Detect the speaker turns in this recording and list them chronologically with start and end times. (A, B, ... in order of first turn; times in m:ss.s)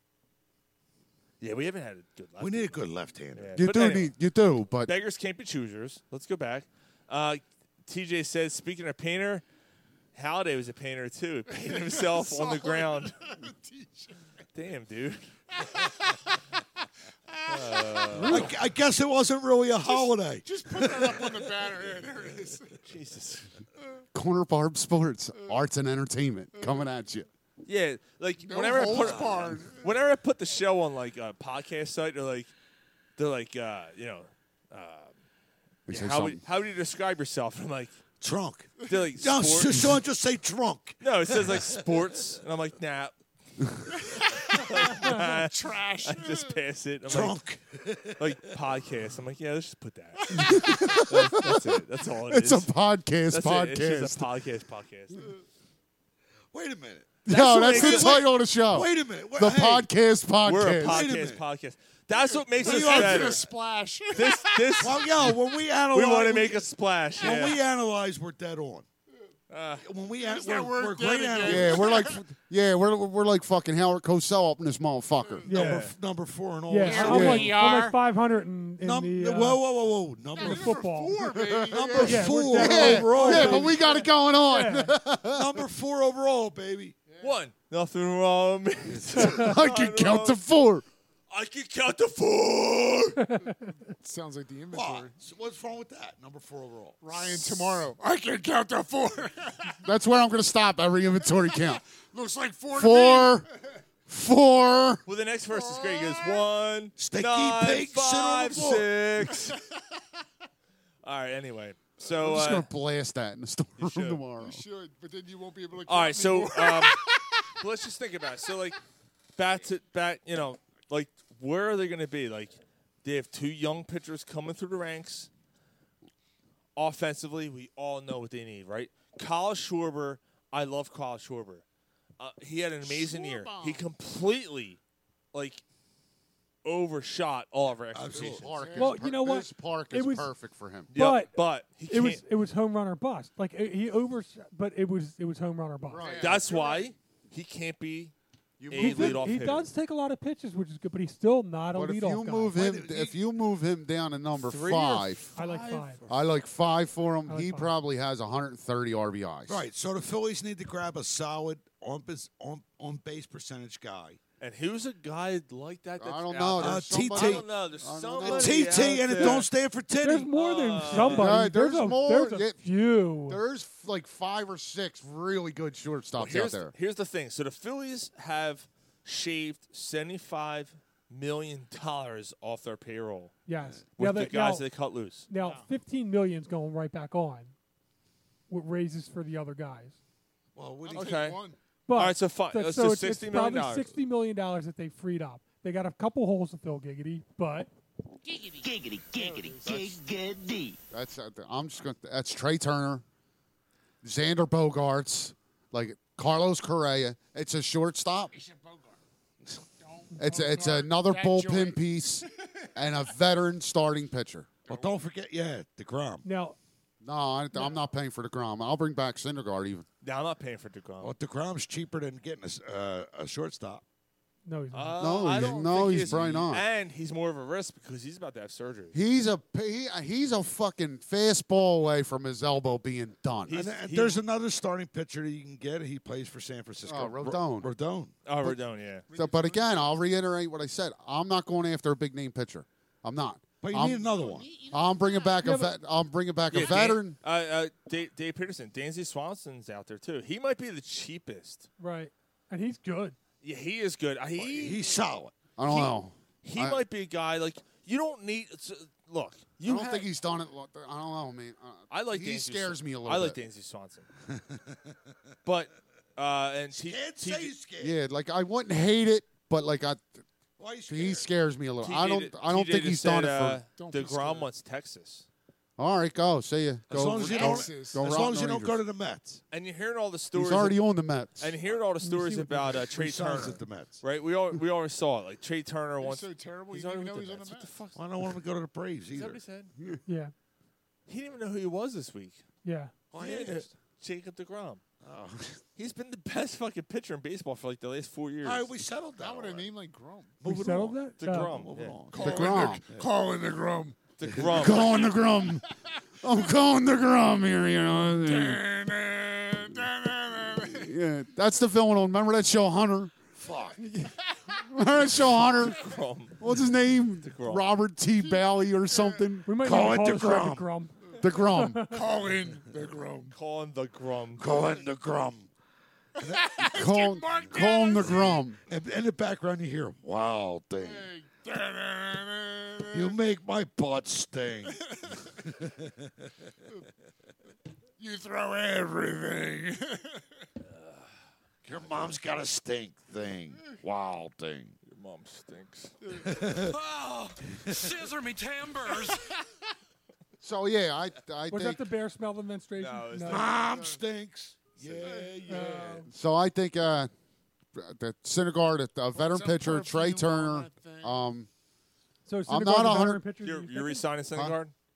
0:01.4-0:04.1 A
0:02.4-0:03.6 B
0:03.6-0:04.9 C
0:04.8-0:09.4 A
0:10.1-0:13.1 A
0:11.5-0:14.3 D
0:14.5-0:15.7 A
0:15.6-0:16.4 D
0:17.3-0:18.5 D
0:17.5-0:18.5 A
0:18.2-0:21.5 B
0:19.8-0:22.9 D
0:22.8-0:23.5 A
0:24.1-0:27.3 C
0:26.6-0:26.8 D
0:27.6-0:32.5 A
0:28.4-0:29.9 D
0:29.0-0:29.5 B
0:33.2-0:35.1 A
0:35.9-0:36.4 C
0:35.9-0:38.0 A
0:38.2-0:42.0 B
0:38.8-0:40.0 A
0:41.0-0:43.1 A
0:44.1-0:46.6 D
0:44.2-0:47.4 A
0:47.1-0:48.3 B
0:48.2-0:52.7 A
0:50.3-0:54.3 C
0:53.3-0:55.2 A
0:56.5-0:57.1 B
0:57.2-1:01.1 C
0:57.3-0:58.3 A
0:57.7-0:59.9 B
1:00.4-1:03.5 A
1:00.8-1:01.4 B
1:02.1-1:05.0 D
1:02.6-1:03.4 B
1:04.1-1:07.6 A
1:04.8-1:08.9 B
1:09.5-1:09.8 A
1:09.8-1:11.9 B
1:10.2-1:12.2 D
1:11.4-1:15.5 C
1:15.2-1:15.5 D
1:15.5-1:15.8 E
1:15.5-1:15.9 A
1:15.5-1:17.8 B
1:16.7-1:19.6 E
1:16.8-1:18.0 D
1:17.0-1:17.5 C
1:18.8-1:20.9 B
1:20.3-1:24.1 D
1:20.4-1:21.1 E
1:21.2-1:25.6 C
1:21.7-1:23.8 B
1:22.0-1:25.0 E
1:25.3-1:27.0 B
1:27.1-1:27.4 D
1:27.2-1:30.4 A
1:28.9-1:30.8 C
1:29.2-1:29.5 E
1:31.3-1:33.2 A
1:33.2-1:33.5 E
1:33.4-1:35.2 D
1:34.7-1:37.6 B
1:37.0-1:39.8 D
1:39.8-1:41.8 C
1:41.3-1:43.6 D
1:42.7-1:43.5 C
1:44.1-1:45.0 C
1:45.1-1:49.6 A
1:45.5-1:46.5 D
1:47.0-1:48.9 B
1:51.0-1:52.7 A
1:52.1-1:54.6 C
1:53.8-1:54.2 A
1:54.4-1:57.4 D
1:55.8-1:58.8 A
1:59.4-2:05.3 A
2:06.8-2:11.6 A
2:12.2-2:14.8 A
2:12.8-2:13.8 D
2:15.3-2:15.6 A
2:16.6-2:18.5 A
2:17.9-2:18.5 B
2:18.1-2:20.9 C
2:18.4-2:18.9 D
2:18.8-2:20.3 E
2:20.9-2:22.2 A
2:20.9-2:21.3 E
2:21.8-2:26.1 E
2:25.9-2:26.9 D
2:25.9-2:26.5 C
2:26.2-2:28.1 A
2:28.6-2:29.3 C
2:28.7-2:29.7 A
2:28.8-2:32.5 E
2:31.7-2:35.3 C
2:32.5-2:33.2 B
2:34.4-2:36.2 A
2:35.4-2:36.0 E
2:36.1-2:39.6 C
2:37.3-2:37.7 E
2:39.5-2:44.2 B
2:44.4-2:49.5 A
2:46.0-2:49.4 C
2:46.6-2:47.5 B
2:48.2-2:50.3 B
2:50.0-2:53.4 E
2:50.3-2:51.3 A
2:51.0-2:56.7 C
2:56.2-3:03.3 A
3:03.4-3:04.6 E
3:04.0-3:05.3 A
3:05.3-3:07.5 E
3:05.4-3:05.7 D
3:08.5-3:10.0 E
3:10.6-3:11.4 B
3:10.8-3:11.6 D
3:10.9-3:11.4 A
3:11.9-3:17.7 E
3:11.9-3:13.9 A
3:18.2-3:19.9 D
3:18.6-3:20.8 F
3:20.9-3:23.0 C
3:24.0-3:28.3 C
3:28.3-3:29.0 D
3:29.8-3:32.5 D
3:30.2-3:34.5 C
3:34.7-3:35.0 D
3:34.7-3:36.2 B
3:36.2-3:36.6 E
3:37.0-3:39.8 C
3:40.0-3:41.1 A
3:41.0-3:43.8 B
3:44.4-3:44.9 E
3:44.7-3:49.0 A
3:45.0-3:46.6 C
3:45.9-3:46.3 B
3:48.9-3:53.6 C
3:53.5-3:54.2 A
3:53.5-3:58.1 B
3:56.8-3:57.7 C
3:58.2-3:59.0 A
3:59.1-3:59.9 D
3:59.1-4:04.1 C
4:03.6-4:04.5 B
4:03.9-4:05.4 D
4:04.7-4:07.2 C
4:05.4-4:05.7 E
4:06.5-4:11.7 A
4:11.8-4:13.2 E
4:13.4-4:15.0 A
4:14.4-4:15.3 B
4:15.6-4:16.8 C
4:15.6-4:20.1 A
4:19.6-4:23.4 C
4:21.9-4:24.1 A
4:24.3-4:25.0 B
4:25.4-4:27.5 A
4:26.7-4:28.0 B
4:27.8-4:30.2 C
4:30.6-4:31.3 B
4:30.9-4:33.6 C
4:31.8-4:35.2 A
4:33.7-4:34.5 D
4:35.8-4:38.8 C
4:36.9-4:39.4 B
4:37.1-4:38.1 D
4:39.5-4:40.8 A
4:40.3-4:41.6 C
4:41.4-4:48.0 A
4:42.0-4:42.8 E
4:42.8-4:44.0 B
4:46.0-4:47.8 D
4:47.9-4:49.4 B
4:49.1-4:49.7 A
4:50.1-4:50.3 E
4:51.1-4:52.4 A
4:52.6-4:52.9 E
4:53.1-4:53.7 B
4:53.1-4:54.8 A
4:55.0-4:55.6 B
4:55.8-4:58.7 A
4:58.4-4:59.7 B
4:59.2-5:00.4 D
5:00.4-5:03.1 B
5:00.4-5:01.5 E
5:01.2-5:02.0 A
5:02.1-5:04.0 D
5:02.2-5:02.8 C
5:04.2-5:05.1 A
5:04.2-5:05.1 B
5:04.5-5:05.6 C
5:05.0-5:05.6 D
5:06.2-5:08.6 C
5:08.2-5:10.9 D
5:10.6-5:13.1 C
5:13.4-5:13.8 B
5:13.8-5:15.8 C
5:15.4-5:16.4 A
5:16.4-5:19.5 C
5:17.2-5:17.7 A
5:18.2-5:19.3 D
5:19.4-5:20.9 E
5:19.6-5:20.7 B
5:21.2-5:21.9 C
5:21.5-5:22.0 E
5:21.8-5:23.3 D
5:23.3-5:24.4 A
5:24.4-5:25.5 B
5:26.2-5:28.5 D
5:26.7-5:28.6 C
5:28.7-5:31.1 B
5:30.8-5:33.2 D
5:32.9-5:36.1 B
5:34.6-5:35.2 D
5:38.0-5:40.2 D
5:41.6-5:44.8 B
5:44.8-5:46.0 A
5:46.0-5:46.3 D
5:46.2-5:46.8 B
5:46.6-5:49.2 F
5:47.6-5:48.0 B
5:50.4-5:51.8 C
5:51.5-5:53.5 E
5:52.8-5:53.5 A
5:53.3-5:56.0 B
5:53.5-5:54.0 D
5:54.8-5:56.0 D
5:55.5-5:56.1 E
5:56.1-5:57.1 C
5:57.7-6:01.5 C
5:59.1-6:01.2 D
6:02.2-6:04.1 E
6:02.5-6:03.2 C
6:03.4-6:04.7 A
6:04.3-6:04.6 C